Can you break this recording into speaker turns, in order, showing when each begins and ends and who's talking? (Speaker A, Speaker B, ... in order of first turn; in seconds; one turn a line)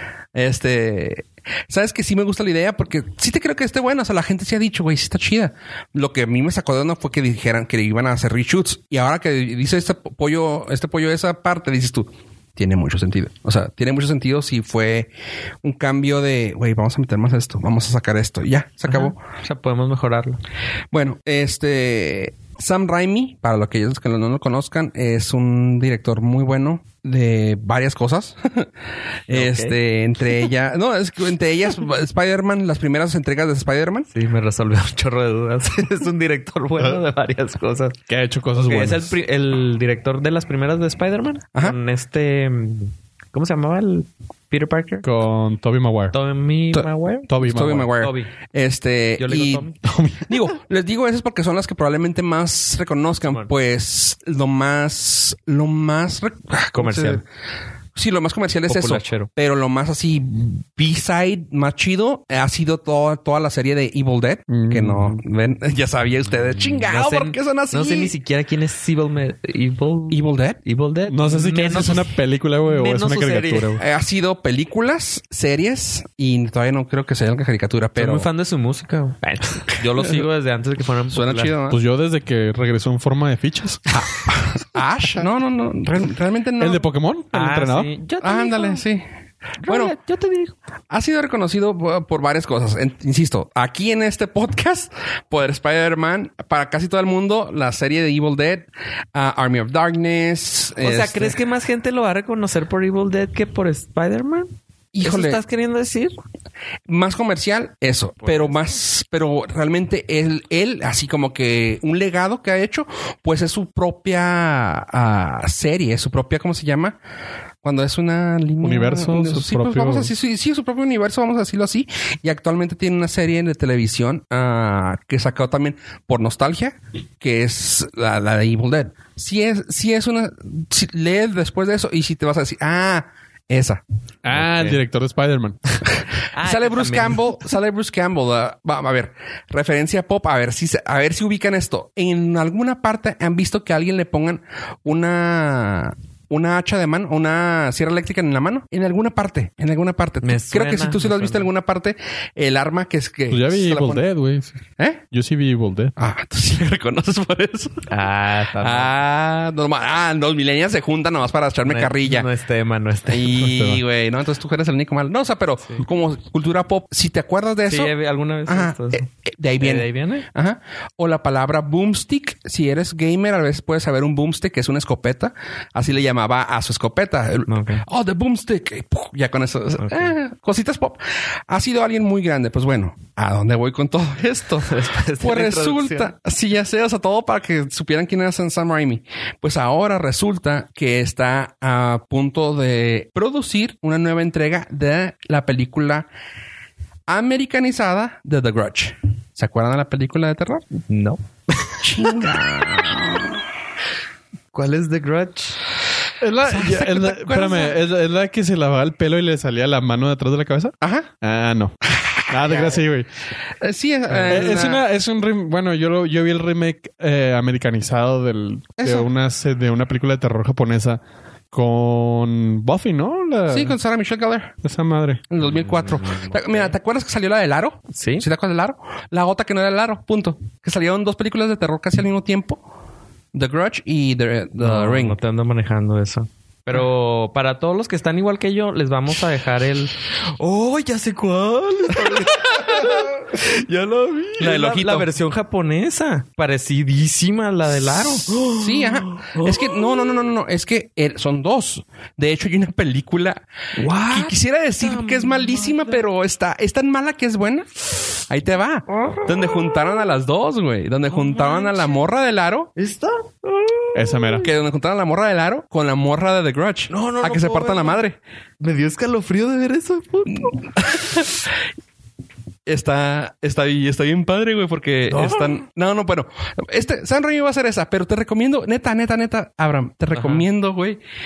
Speaker A: 0.3-15.1
Speaker A: 15.6-19.2
Speaker B: 18.9-20.4
Speaker A: 20.9-28.7
Speaker A: 29.3-34.1
Speaker B: 29.3-29.8
Speaker B: 34.1-38.0
Speaker C: 38.1-39.1
Speaker B: 38.5-45.1
Speaker C: 45.0-46.1
Speaker B: 46.1-47.3
Speaker C: 47.3-47.9
Speaker A: 47.4-49.7
Speaker B: 48.0-48.3
Speaker B: 49.2-49.8
Speaker C: 49.8-50.4
Speaker A: 50.3-57.2
Speaker B: 56.7-57.2
Speaker A: 58.0-68.1
Speaker B: 58.7-59.3
Speaker C: 64.5-65.2
Speaker B: 66.8-73.8
Speaker A: 70.1-70.6
Speaker C: 71.1-73.8
Speaker A: 73.8-78.3
Speaker B: 78.0-81.5
Speaker A: 81.1-81.8
Speaker C: 81.7-83.9
Speaker A: 83.9-86.8
Speaker C: 86.6-87.9
Speaker B: 87.3-88.8
Speaker A: 88.2-89.0
Speaker B: 89.6-90.5
Speaker A: 89.7-89.9
Speaker A: 90.9-101.4
Speaker B: 100.8-104.5
Speaker A: 104.9-105.4
Speaker B: 105.0-106.2
Speaker A: 106.9-117.0
Speaker B: 108.2-108.6
Speaker A: 117.6-133.8
Speaker C: 118.6-120.1
Speaker C: 134.2-135.8
Speaker B: 134.3-134.8
Speaker B: 136.3-137.2
Speaker A: 136.4-154.0
Speaker B: 150.2-151.5
Speaker C: 153.3-154.6
Speaker C: 155.1-155.9
Speaker A: 156.0-157.9
Speaker B: 157.9-158.9
Speaker A: 158.6-162.3
Speaker B: 161.7-163.5
Speaker A: 163.1-167.9
Speaker C: 163.4-163.8
Speaker B: 167.7-169.1
Speaker A: 168.5-196.1
Speaker B: 169.6-170.3
Speaker B: 177.5-177.8
Speaker B: 179.8-180.2
Speaker B: 184.7-186.1
Speaker A: 197.1-200.7
Speaker B: 200.9-202.2
Speaker A: 201.8-203.4
Speaker B: 204.5-205.6
Speaker C: 206.2-211.8
Speaker A: 206.4-207.8
Speaker A: 210.8-211.1
Speaker A: 212.0-212.7
Speaker C: 212.3-213.1
Speaker A: 213.6-214.8
Speaker C: 214.2-221.0
Speaker A: 218.8-219.1
Speaker C: 221.5-223.8
Speaker A: 223.5-224.6
Speaker C: 224.6-225.2
Speaker A: 225.3-232.6
Speaker B: 225.4-226.7
Speaker B: 227.9-228.3
Speaker A: 233.3-235.2
Speaker B: 234.6-250.3
Speaker A: 242.1-243.0
Speaker A: 244.1-245.1
Speaker A: 247.9-253.4
Speaker B: 253.8-256.0
Speaker A: 254.1-262.7
Speaker B: 258.9-259.8
Speaker B: 261.1-262.0
Speaker B: 262.8-264.5
Speaker C: 263.9-264.5
Speaker A: 264.4-268.2
Speaker B: 266.9-268.0
Speaker B: 268.6-271.1
Speaker A: 270.4-271.3
Speaker A: 272.7-281.0
Speaker B: 275.1-275.6
Speaker B: 280.1-280.5